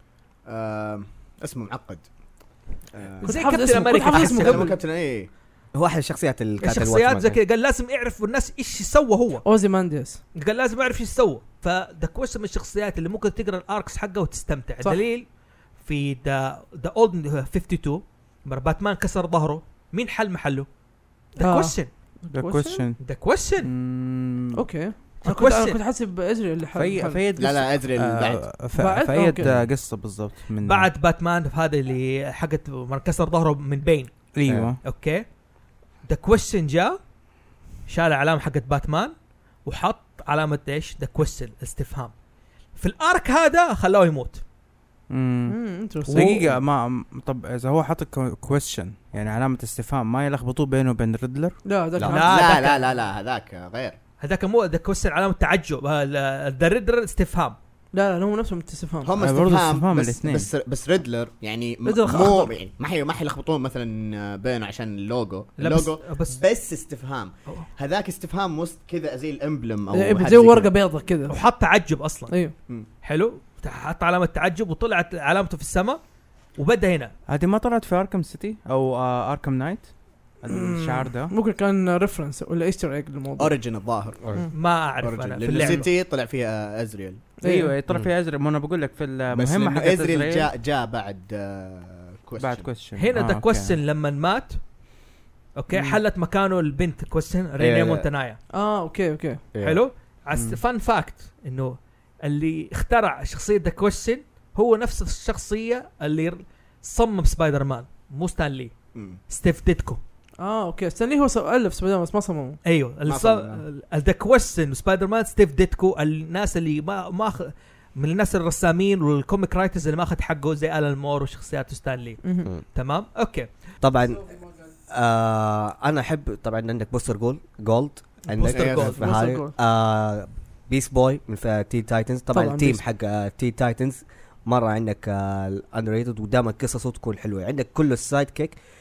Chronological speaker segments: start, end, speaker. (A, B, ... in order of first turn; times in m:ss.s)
0:00.4-0:02.0 A
0:02.9-0:03.4 A
0:03.2-0:04.7 B
0:03.2-0:04.7 C
0:04.0-0:05.3 A
0:05.7-0:07.4 D
0:06.6-0:09.4 B
0:09.4-0:10.2 C
0:10.3-0:15.2 B
0:15.8-0:20.7 B
0:21.3-0:21.9 B
0:21.4-0:22.8 C
0:22.3-0:23.0 E
0:23.0-0:23.7 B
0:23.6-0:24.6 E
0:24.5-0:27.2 C
0:25.2-0:25.8 B
0:26.7-0:30.9 E
0:27.4-0:28.4 A
0:28.7-0:29.4 C
0:29.4-0:29.7 D
0:30.6-0:34.2 B
0:34.3-0:34.8 E
0:34.5-0:34.7 D
0:34.8-0:35.2 B
0:36.0-0:37.0 B
0:37.9-0:39.1 B
0:39.6-0:42.1 B
0:42.8-0:44.4 B
0:45.1-0:51.6 E
0:45.5-0:46.5 C
0:46.1-0:46.4 B
0:51.6-0:52.7 C
0:52.0-0:54.0 A
0:52.0-0:52.8 B
0:54.2-0:57.6 B
0:57.9-0:59.1 C
0:59.0-1:10.7 A
0:59.2-1:00.5 E
1:01.8-1:02.5 C
1:05.6-1:06.4 B
1:09.9-1:11.4 C
1:11.3-1:12.3 B
1:12.3-1:12.5 C
1:13.0-1:16.0 B
1:16.6-1:17.1 B
1:17.3-1:21.3 E
1:20.5-1:23.6 C
1:23.4-1:24.2 A
1:24.5-1:25.9 B
1:25.0-1:27.3 A
1:27.4-1:27.8 C
1:27.4-1:30.5 E
1:29.3-1:32.7 A
1:32.4-1:33.8 E
1:33.0-1:34.6 B
1:35.6-1:38.4 B
1:37.6-1:38.0 D
1:38.5-1:39.4 C
1:39.5-1:39.8 D
1:39.6-1:48.7 B
1:40.3-1:40.6 E
1:48.9-1:49.2 A
1:49.3-1:50.0 B
1:50.4-1:52.6 C
1:52.6-2:03.5 B
1:53.0-1:53.6 A
2:02.2-2:02.5 C
2:03.8-2:18.6 D
2:08.3-2:09.0 B
2:08.4-2:09.0 A
2:09.0-2:09.5 C
2:12.3-2:12.8 C